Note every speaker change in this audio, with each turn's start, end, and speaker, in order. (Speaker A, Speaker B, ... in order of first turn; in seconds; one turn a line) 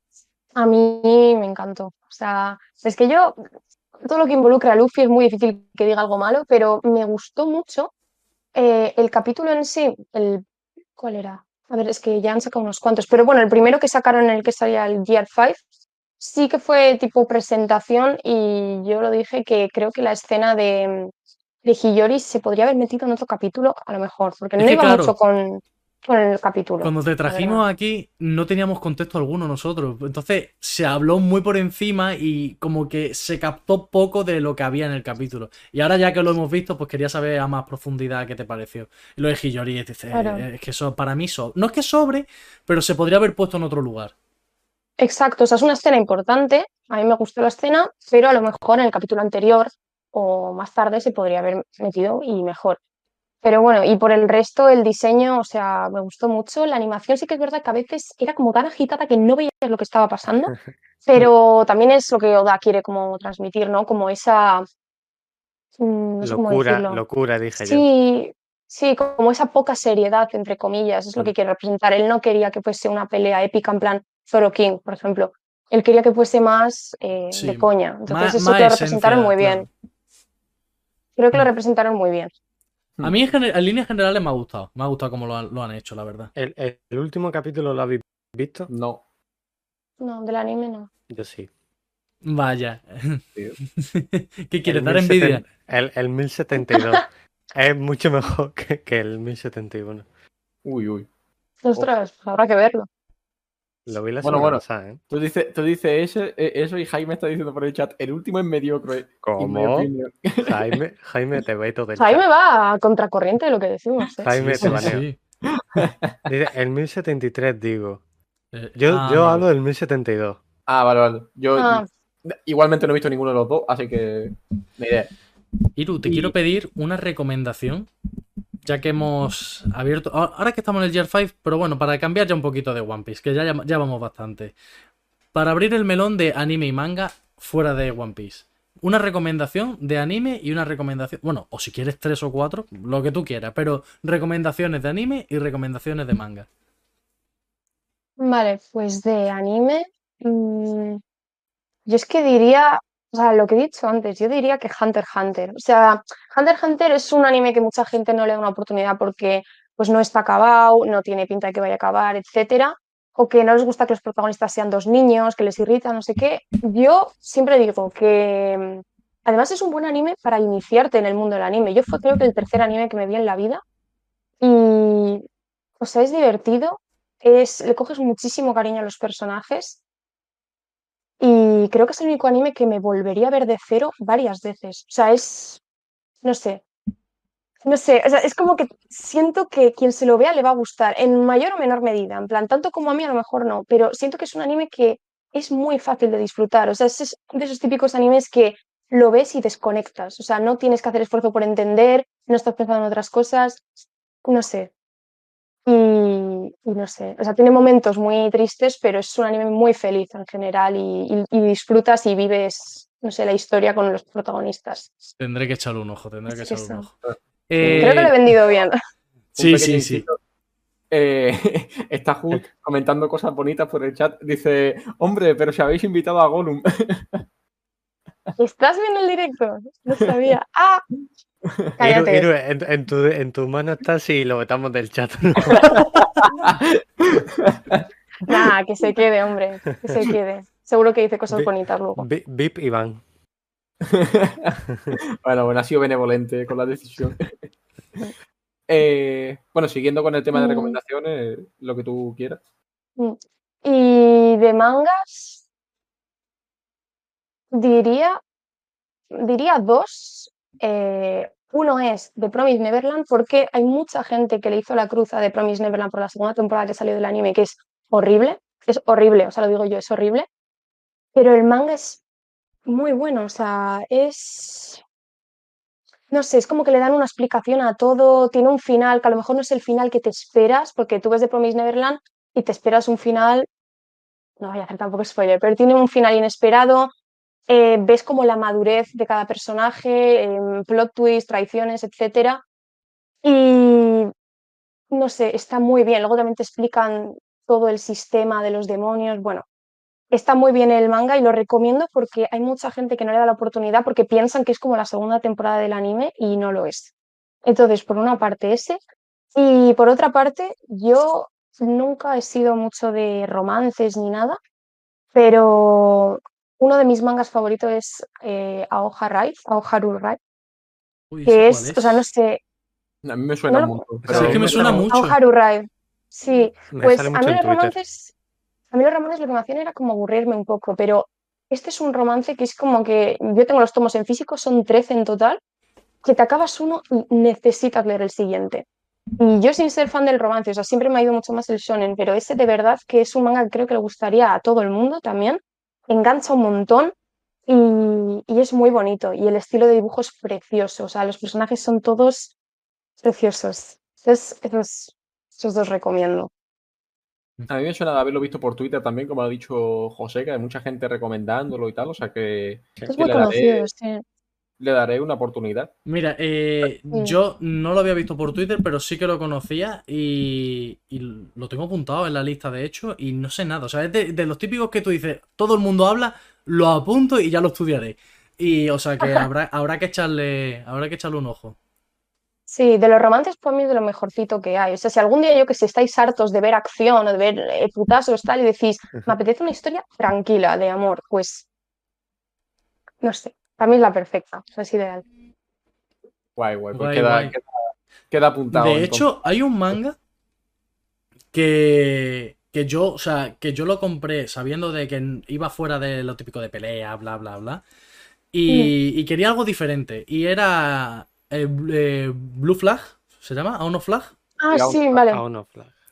Speaker A: 0.6-3.4
Speaker A: 4.0-7.9
Speaker A: 8.5-10.4
Speaker A: 11.0-15.6
Speaker A: 16.2-21.1
Speaker A: 21.6-27.6
Speaker B: 24.6-25.1
Speaker B: 26.8-44.1
Speaker A: 40.1-40.4
Speaker A: 45.0-52.8
Speaker A: 53.4-64.7
Speaker A: 65.8-67.0
Speaker C: 66.2-67.8
Speaker A: 67.6-79.7
Speaker B: 77.3-79.7
Speaker A: 81.2-82.3
Speaker B: 83.0-86.3
Speaker C: 86.3-88.7
Speaker D: 88.7-89.0
Speaker A: 90.0-90.9
Speaker C: 91.1-91.5
Speaker B: 92.2-93.2
Speaker B: 93.8-95.4
Speaker C: 94.7-100.0
Speaker A: 96.6-97.0
Speaker D: 100.6-101.1
Speaker A: 101.6-102.9
Speaker C: 103.9-105.0
Speaker D: 104.2-110.8
Speaker C: 109.2-109.9
Speaker C: 110.4-112.2
Speaker A: 112.0-114.3
Speaker C: 114.2-115.0
Speaker B: 114.3-115.2
Speaker D: 115.5-116.2
Speaker C: 116.2-118.0
Speaker B: 118.5-119.4
Speaker C: 118.8-120.4
Speaker D: 120.7-125.1
Speaker A: 121.6-121.9
Speaker B: 125.8-127.9
Speaker D: 126.0-126.3
Speaker B: 128.6-134.5
Speaker B: 135.3-146.5
Speaker A: 148.2-151.0
Speaker A: 151.8-173.6
Speaker A: 174.4-175.2
Speaker A: 175.8-179.8
Speaker A: 181.2-185.6
Speaker A: 186.2-186.6
Speaker A: 187.6-203.6
Speaker A: 204.2-204.7
Speaker A: 205.7-214.9
Speaker B: 215.2-216.9
Speaker A: 216.3-216.9
Speaker D: 217.0-218.0
Speaker B: 217.5-218.2
Speaker A: 217.6-218.8
Speaker B: 219.4-220.0
Speaker D: 219.4-220.2
Speaker D: 220.9-227.2
Speaker A: 228.4-230.8
Speaker A: 231.8-232.3
Speaker C: 231.8-236.0
Speaker D: 235.5-238.4
Speaker A: 238.3-242.1
Speaker C: 241.3-243.0
Speaker D: 243.9-247.4
Speaker D: 248.7-252.4
Speaker A: 250.3-250.8
Speaker A: 253.0-255.4
Speaker A: 257.5-258.2
Speaker A: 259.1-270.3
Speaker A: 271.1-272.0
Speaker A: 272.6-274.8
Speaker A: 276.1-283.5
Speaker A: 284.4-286.9
Speaker A: 287.5-292.4
Speaker A: 293.2-294.1
Speaker A: 294.9-299.4
Speaker A: 300.1-306.9
Speaker A: 307.4-308.8
Speaker A: 309.3-314.4
Speaker A: 315.1-320.2
Speaker B: 321.1-322.1
Speaker A: 321.2-322.4
Speaker D: 323.0-324.9
Speaker A: 323.5-328.1
Speaker B: 324.1-325.2
Speaker C: 326.7-327.7
Speaker A: 328.7-335.4
Speaker A: 336.0-338.6
Speaker A: 339.2-346.9
Speaker A: 347.5-352.3
Speaker A: 353.0-356.3
Speaker D: 357.5-363.7
Speaker A: 362.9-364.0
Speaker D: 364.6-365.7
Speaker B: 365.8-381.6
Speaker A: 366.9-367.2
Speaker A: 382.5-391.4
Speaker A: 393.0-395.0
Speaker D: 396.4-397.5
Speaker B: 396.7-397.3
Speaker D: 398.1-399.1
Speaker B: 398.5-399.9
Speaker B: 401.3-407.6
Speaker B: 408.3-414.1
Speaker A: 414.4-415.2
Speaker D: 414.5-415.0
Speaker C: 415.1-415.7